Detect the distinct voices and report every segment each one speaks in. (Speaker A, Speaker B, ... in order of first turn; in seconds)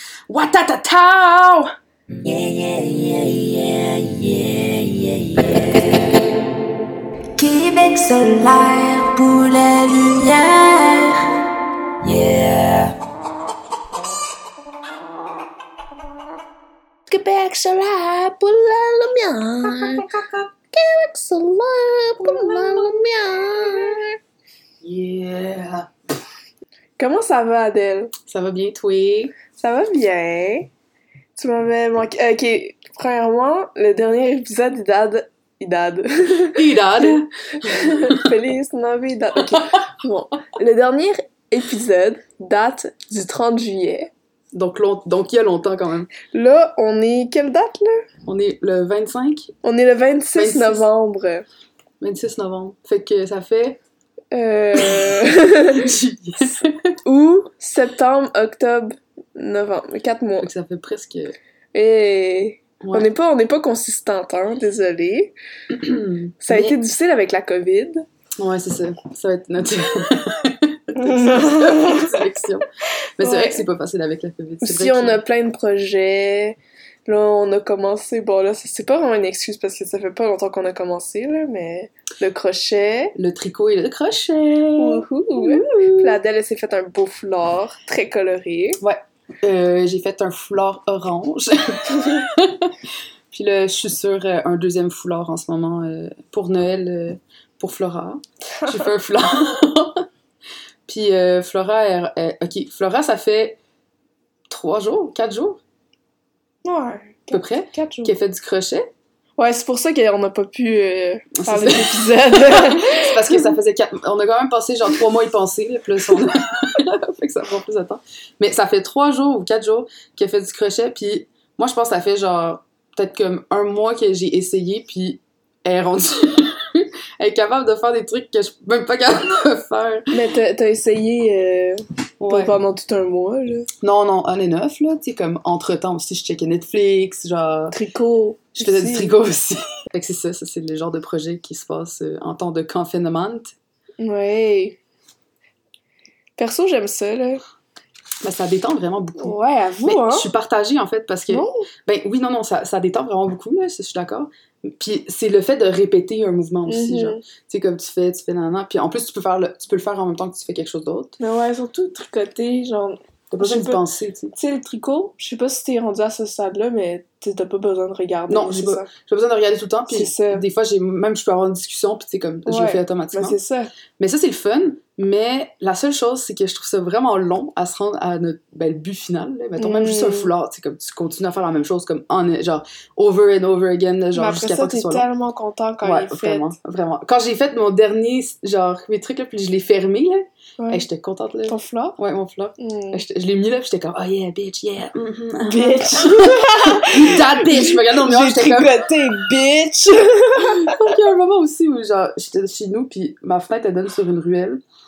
Speaker A: 0.3-1.7, 22.2-23.0, 24.8-25.9, 28.2-29.3, 36.5-38.3, 44.5-46.1, 48.3-49.5, 50.3-50.9, 52.0-53.8, 54.8-56.9, 60.4-61.3, 62.8-63.1, 65.7-66.8, 68.4-72.7, 73.2-75.2, 83.2-86.2, 88.8-92.8, 93.3-100.0, 100.9-103.6, 104.5-105.6, 107.3-108.9, 111.4-130.1, 132.2-132.6, 133.8-137.8, 138.6-143.5, 148.2-161.2, 163.3-164.3, 168.3-173.4, 174.0-185.1, 185.8-198.9, 200.4-204.6
Speaker B: 2.2-6.2, 7.4-11.3, 12.0-12.9
Speaker C: 17.1-20.1, 20.7-24.1, 27.0-28.1, 29.6-30.7, 31.4-44.1, 46.3-48.0, 49.6-51.5, 54.3-55.9, 57.0-60.5, 61.7-65.3, 66.4-68.0, 71.0-72.2, 73.2-73.6, 74.6-83.2, 84.8-88.8, 98.6-98.8, 106.6-108.1, 109.4-113.5, 130.1-133.7, 137.7-139.1, 144.0-144.8, 146.4-147.4, 149.2-150.3, 151.3-151.6, 156.7-157.2, 161.2-163.8, 164.3-168.9, 169.9-170.4, 172.4-173.7, 179.6-180.3, 184.1-186.5, 190.6-190.8, 191.5-192.0, 192.6-193.0, 195.4-200.8